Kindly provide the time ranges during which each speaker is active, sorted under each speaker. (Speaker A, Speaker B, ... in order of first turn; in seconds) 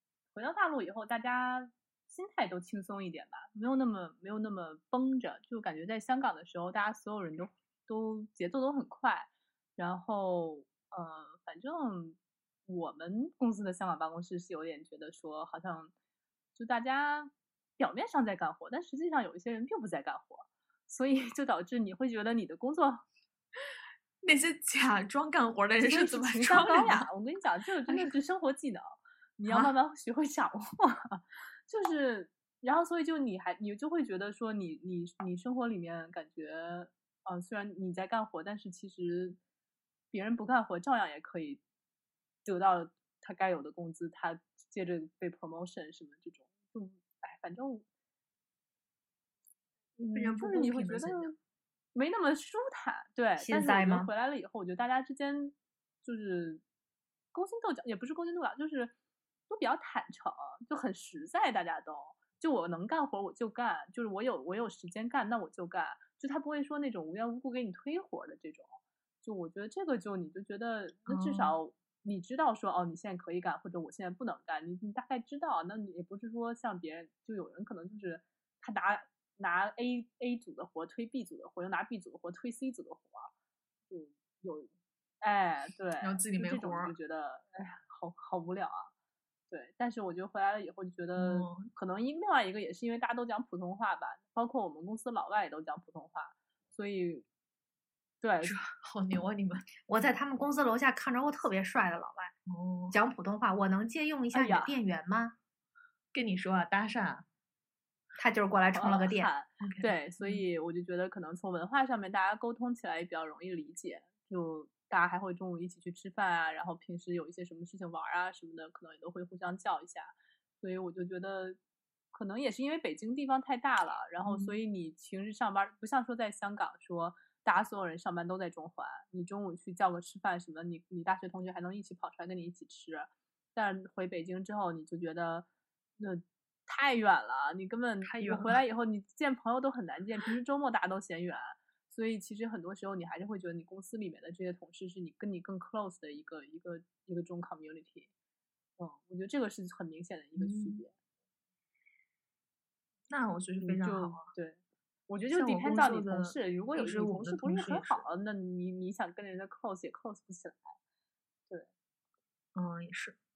Speaker A: 0.3-15.9, 16.6-23.1, 25.8-39.4, 40.1-41.6, 42.5-47.9, 50.0-51.3, 52.0-56.6, 57.3-58.9, 59.5-83.3, 83.9-84.7, 85.2-88.9, 89.5-97.2, 98.2-98.6, 104.3-104.8, 108.7-121.6, 122.1-135.5, 136.0-148.1, 148.8-150.9, 153.6-160.8
Speaker B: 24.2-27.1, 29.5-29.7, 50.1-51.4, 71.1-71.6, 86.0-87.0, 91.2-91.7, 98.4-99.7, 102.5-103.0, 106.1-107.3, 109.6-110.4, 124.2-124.5, 138.0-138.6, 150.4-150.8, 153.1-154.3, 155.3-158.1, 162.6-163.2
Speaker C: 53.4-54.1, 99.9-102.3, 102.9-105.3, 108.2-109.3